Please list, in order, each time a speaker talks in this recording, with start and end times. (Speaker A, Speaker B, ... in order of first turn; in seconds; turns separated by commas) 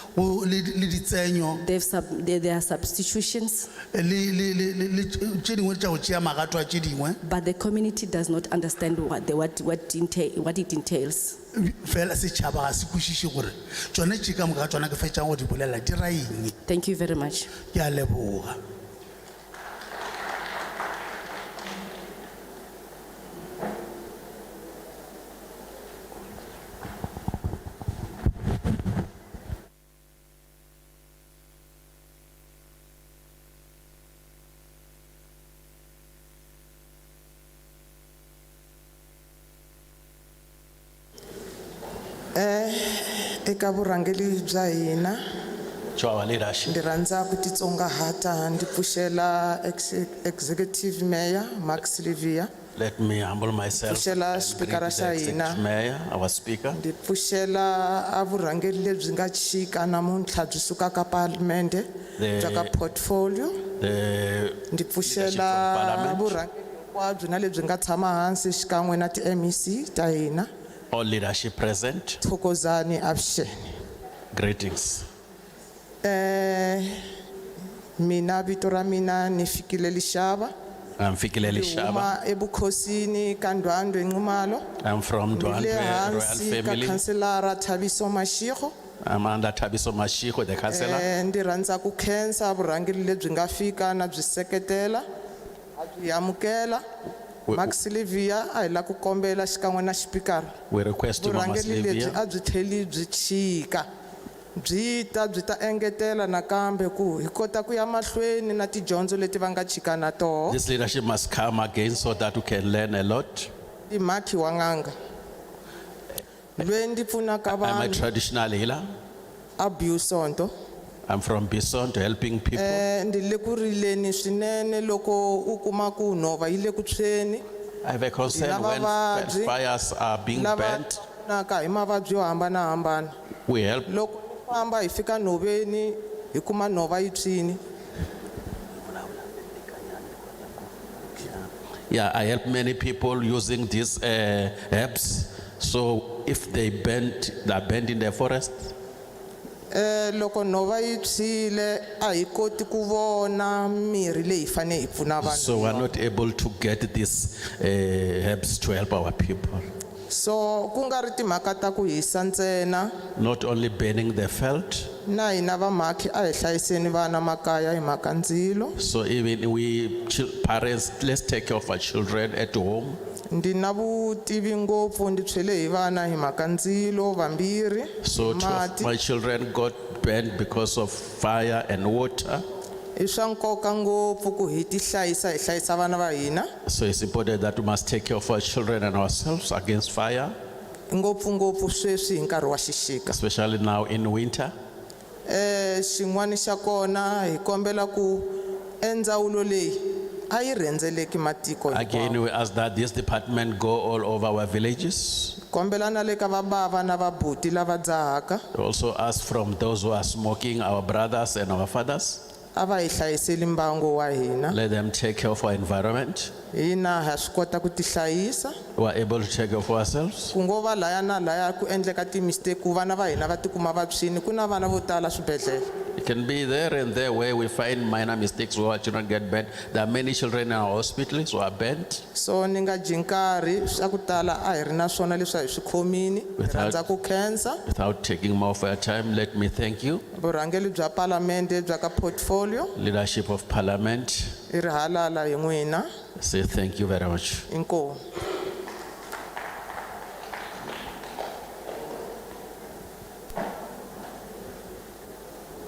Speaker A: 0.1-1.6, Speaker B: 1.7-3.6, Speaker A: 3.9-7.2, Speaker B: 7.2-11.4, Speaker A: 11.5-16.6, Speaker B: 16.7-17.5, Speaker A: 17.7-18.6, Speaker C: 42.3-45.2, Speaker D: 45.9-46.9, Speaker C: 46.7-52.5, Speaker D: 52.8-56.8, Speaker C: 53.9-55.6, Speaker C: 56.7-63.6, Speaker D: 62.2-62.7, Speaker D: 63.8-66.4, Speaker C: 64.7-70.5, Speaker D: 70.9-72.2, Speaker C: 72.2-73.5, Speaker D: 74.3-75.0, Speaker C: 76.0-76.9, Speaker C: 78.0-80.5, Speaker D: 81.0-82.1, Speaker C: 81.4-84.6, Speaker D: 84.8-87.0, Speaker C: 85.3-88.7, Speaker D: 89.0-91.1, Speaker C: 90.7-95.0, Speaker C: 95.8-96.8, Speaker C: 97.5-100.5, Speaker D: 100.7-102.2, Speaker C: 101.2-103.9, Speaker C: 104.6-110.6, Speaker D: 110.5-113.5, Speaker C: 113.9-114.9, Speaker C: 116.6-118.0, Speaker D: 117.5-118.8, Speaker C: 119.6-120.5, Speaker D: 121.1-122.8, Speaker C: 122.5-127.4, Speaker D: 127.8-131.0, Speaker C: 128.3-129.5, Speaker C: 130.3-133.1, Speaker D: 133.5-133.9, Speaker C: 133.9-137.6, Speaker D: 138.8-140.4, Speaker D: 141.1-148.7, Speaker C: 149.7-155.9, Speaker D: 155.2-159.7, Speaker C: 160.1-162.9, Speaker D: 163.2-164.9, Speaker C: 165.1-168.7, Speaker D: 168.8-173.0, Speaker C: 173.3-178.9, Speaker D: 178.0-182.4, Speaker C: 182.9-186.5, Speaker D: 186.7-190.3, Speaker C: 190.9-193.2, Speaker D: 193.1-194.5, Speaker C: 195.2-202.2, Speaker D: 201.7-205.4, Speaker C: 205.5-208.4, Speaker D: 208.5-212.2, Speaker C: 212.5-214.6, Speaker D: 214.5-216.3, Speaker C: 216.5-218.6, Speaker D: 218.8-220.3, Speaker C: 220.3-225.7, Speaker D: 225.9-232.0, Speaker C: 232.1-237.6, Speaker D: 236.4-236.8, Speaker D: 237.7-240.0, Speaker C: 240.1-242.7, Speaker D: 242.8-244.3, Speaker C: 244.5-245.9, Speaker D: 246.2-247.4, Speaker C: 247.5-248.0